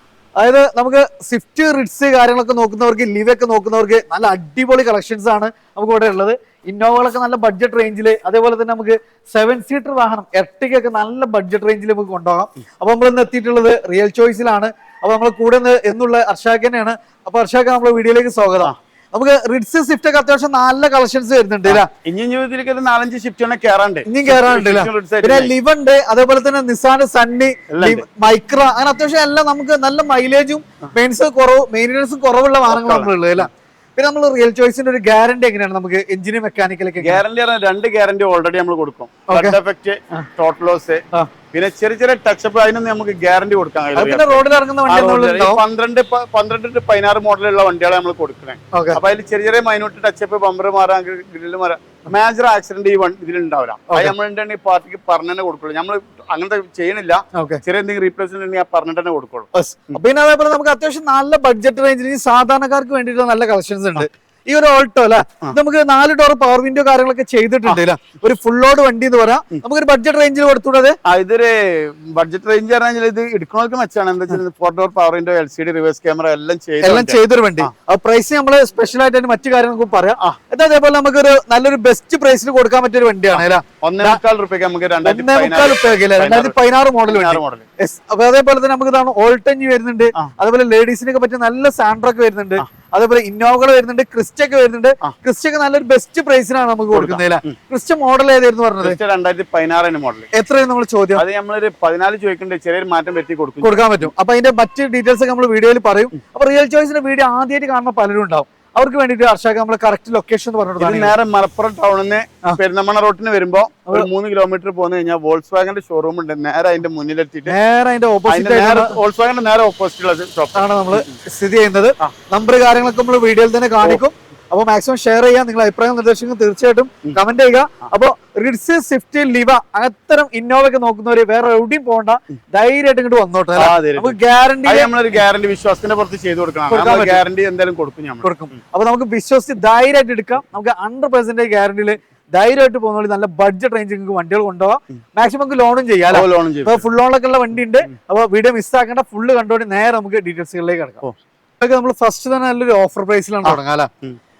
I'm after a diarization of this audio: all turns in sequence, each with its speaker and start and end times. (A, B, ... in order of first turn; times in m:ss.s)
0:00.4-0:21.9 A
0:21.6-0:25.5 B
0:24.1-0:37.2 A
0:27.7-0:28.0 B
0:32.7-0:33.5 B
0:37.0-1:00.0 B
0:39.3-0:39.6 A
0:43.9-0:45.6 A
0:48.7-0:49.0 A
0:57.4-0:57.6 A
0:59.5-1:11.0 A
1:11.0-1:17.7 B
1:16.8-1:24.2 A
1:23.3-1:27.7 B
1:25.0-1:39.0 A
1:36.9-1:37.6 B
1:38.8-1:40.3 B
1:40.3-1:41.2 A
1:41.1-1:44.1 B
1:43.6-1:51.1 A
1:50.8-1:57.6 B
1:57.5-1:59.0 A
1:58.3-2:01.2 B
2:00.5-2:15.2 A
2:13.6-2:18.6 B
2:16.7-2:17.2 A
2:18.2-2:31.0 A
2:26.1-2:26.8 B
2:31.6-2:33.9 A
2:33.4-2:34.2 B